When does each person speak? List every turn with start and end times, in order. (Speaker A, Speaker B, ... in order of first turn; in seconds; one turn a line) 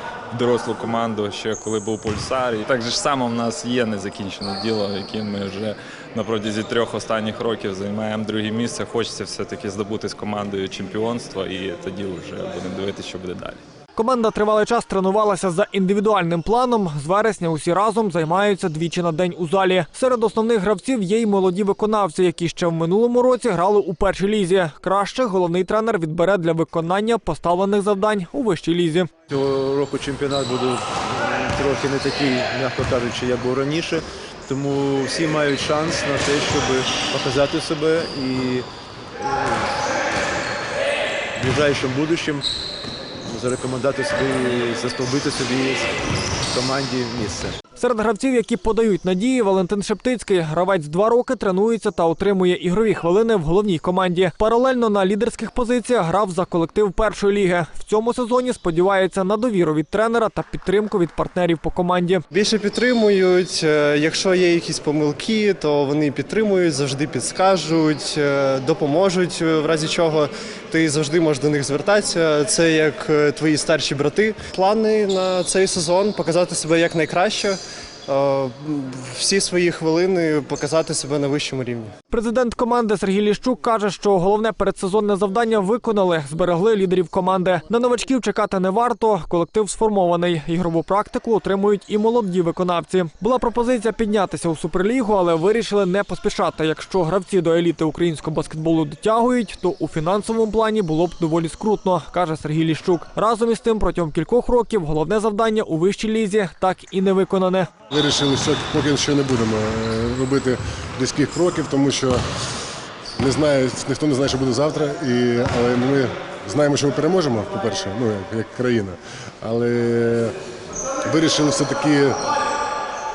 Speaker A: 0.3-13.6
Speaker B: 14.0-29.1
Speaker C: 29.3-39.8
Speaker C: 41.4-42.5
Speaker C: 43.3-47.6
Speaker B: 47.8-62.2
Speaker D: 62.3-81.9
Speaker B: 82.1-107.7
Speaker E: 107.9-112.2
Speaker E: 113.2-120.3
Speaker E: 121.1-122.2